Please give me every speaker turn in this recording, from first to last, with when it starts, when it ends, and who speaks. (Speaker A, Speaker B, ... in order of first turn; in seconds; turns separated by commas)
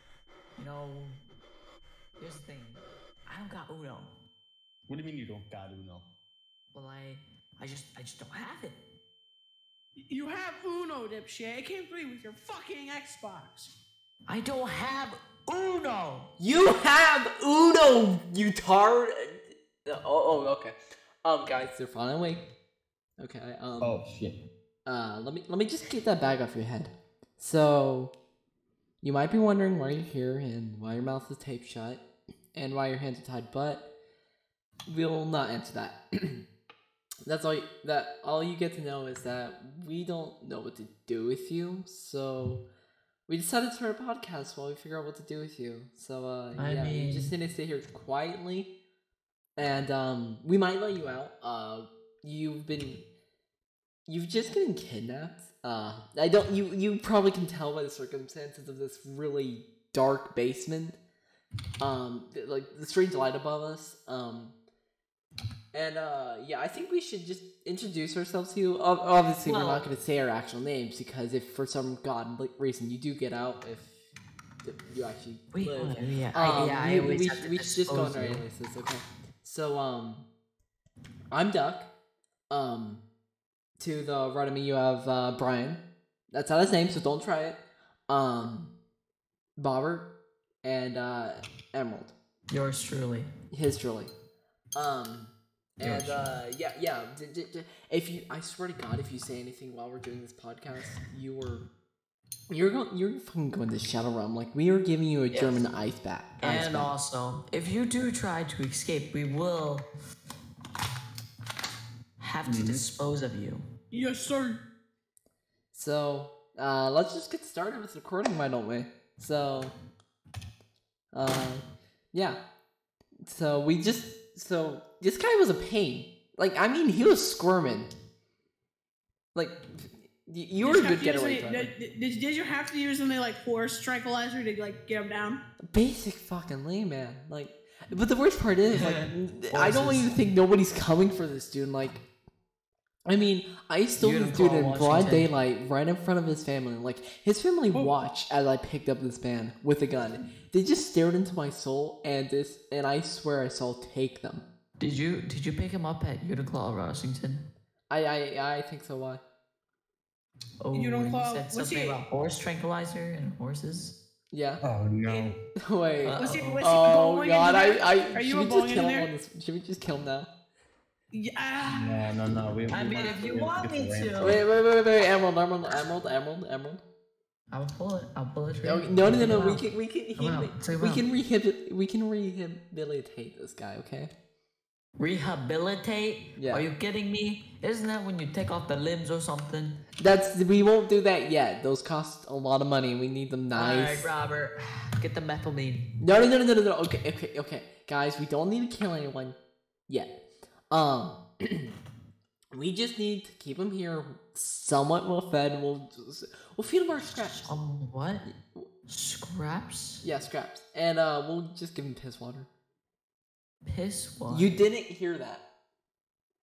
Speaker A: 0.5-1.2, Speaker A: 2.2-4.1, Speaker B: 4.9-6.0, Speaker A: 6.7-8.8, Speaker C: 10.1-13.7, Speaker A: 14.2-16.3, Speaker D: 16.4-22.4, Speaker D: 23.2-23.9, Speaker B: 23.8-24.3, Speaker D: 24.9-28.1, Speaker D: 29.0-32.0, Speaker D: 32.5-33.8, Speaker D: 34.9-36.4, Speaker D: 37.2-42.6, Speaker D: 43.3-48.7, Speaker A: 46.5-47.3, Speaker D: 49.6-53.0, Speaker D: 54.1-61.0, Speaker D: 61.8-64.5, Speaker D: 65.7-74.0, Speaker A: 69.4-69.8, Speaker D: 74.6-80.3, Speaker A: 75.5-78.4, Speaker D: 81.3-81.9, Speaker D: 82.5-83.0, Speaker D: 83.8-88.7, Speaker D: 89.6-90.1, Speaker D: 90.6-92.1, Speaker A: 92.5-93.3, Speaker D: 93.5-94.1, Speaker D: 94.7-101.7, Speaker A: 95.8-96.3, Speaker D: 102.5-106.9, Speaker A: 105.3-105.7, Speaker A: 106.4-109.8, Speaker A: 112.2-113.6, Speaker B: 112.5-112.8, Speaker C: 113.9-114.6, Speaker D: 115.7-119.7, Speaker D: 121.1-122.4, Speaker D: 123.3-127.9, Speaker D: 129.3-131.7, Speaker C: 130.6-135.4, Speaker D: 135.7-142.0, Speaker A: 138.7-139.1, Speaker B: 139.7-140.1, Speaker D: 143.1-154.4, Speaker A: 144.0-145.3, Speaker A: 154.8-157.4, Speaker D: 157.9-159.2, Speaker A: 160.6-163.9, Speaker C: 160.7-162.0, Speaker D: 164.3-164.6, Speaker B: 164.6-165.4, Speaker C: 165.1-165.3, Speaker D: 165.6-170.3, Speaker A: 166.0-166.7, Speaker C: 166.2-169.1, Speaker C: 171.1-171.8, Speaker B: 171.7-174.4, Speaker A: 172.7-174.4, Speaker D: 174.2-176.8, Speaker A: 177.5-179.7, Speaker D: 178.6-184.1, Speaker A: 180.2-181.1, Speaker A: 185.0-189.8, Speaker D: 186.4-186.7, Speaker D: 190.0-194.1, Speaker A: 193.5-195.9, Speaker D: 196.0-199.3, Speaker D: 200.7-201.7, Speaker D: 202.5-207.5, Speaker A: 207.3-208.2, Speaker D: 208.2-208.7, Speaker A: 208.9-210.0, Speaker D: 210.0-212.5, Speaker A: 213.6-214.5, Speaker D: 214.3-215.4